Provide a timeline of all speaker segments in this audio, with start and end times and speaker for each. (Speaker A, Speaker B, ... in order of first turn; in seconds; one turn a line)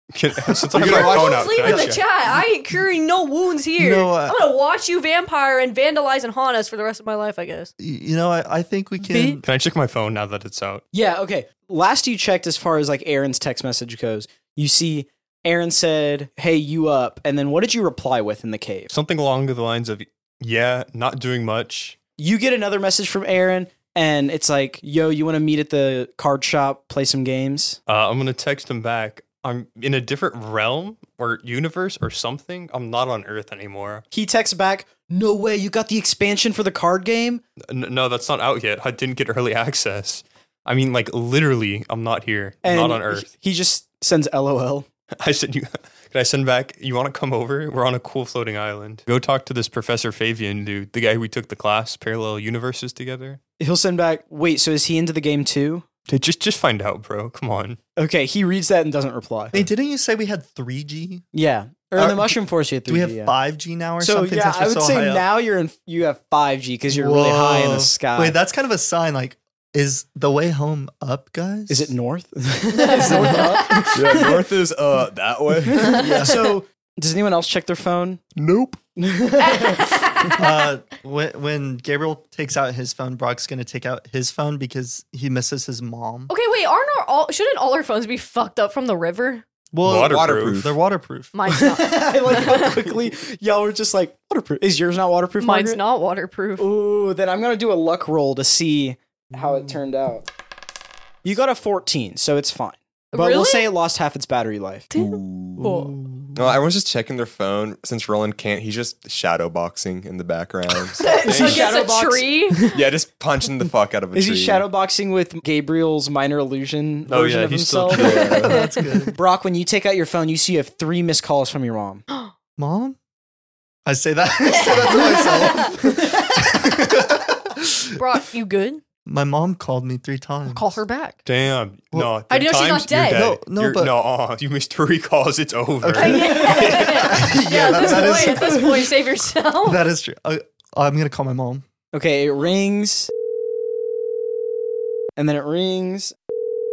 Speaker A: 0.1-2.0
Speaker B: 0.7-1.9
Speaker C: 0.8-7.7
Speaker D: 3.8-4.4
Speaker D: 7.8-9.4
Speaker C: 9.0-9.4
Speaker A: 9.4-10.8
Speaker E: 10.9-18.9
Speaker A: 18.9-22.0
Speaker E: 22.2-27.8
Speaker A: 27.9-34.0
Speaker E: 34.1-37.4
Speaker A: 37.7-43.2
Speaker E: 42.6-44.9
Speaker A: 45.2-53.4
Speaker E: 53.6-55.9
Speaker A: 56.1-57.8
Speaker E: 58.0-59.6
Speaker D: 59.5-61.2
Speaker E: 61.3-63.4
Speaker D: 62.0-65.2
Speaker E: 64.0-68.4
Speaker D: 66.9-71.9
Speaker E: 71.7-74.4
Speaker C: 72.8-73.9
Speaker D: 72.9-73.9
Speaker B: 73.9-76.0
Speaker E: 75.6-78.2
Speaker D: 75.7-76.6
Speaker B: 78.4-78.8
Speaker E: 78.9-80.3
Speaker C: 79.4-80.6
Speaker D: 80.4-86.3
Speaker C: 86.3-89.4
Speaker D: 89.7-91.3
Speaker A: 89.8-90.6
Speaker B: 89.9-90.8
Speaker C: 91.3-93.0
Speaker E: 91.5-95.8
Speaker C: 95.4-96.7
Speaker E: 96.6-100.2
Speaker E: 101.2-104.9
Speaker C: 103.1-103.7
Speaker C: 104.9-105.9
Speaker B: 104.9-105.7
Speaker D: 105.6-106.4
Speaker B: 106.3-111.7
Speaker C: 111.0-112.8
Speaker E: 111.1-112.7
Speaker B: 112.7-114.7
Speaker E: 114.1-122.0
Speaker A: 117.1-118.3
Speaker D: 117.9-119.2
Speaker B: 117.9-118.5
Speaker D: 122.6-123.0
Speaker D: 123.8-127.9
Speaker C: 124.5-126.7
Speaker C: 128.0-128.8
Speaker D: 129.1-130.8
Speaker C: 130.5-131.2
Speaker A: 131.2-137.3
Speaker C: 132.3-133.3
Speaker D: 133.1-133.9
Speaker D: 135.8-138.7
Speaker C: 135.9-139.8
Speaker E: 136.3-136.7
Speaker E: 137.7-138.9
Speaker D: 139.6-141.6
Speaker E: 141.9-143.1
Speaker E: 145.2-146.1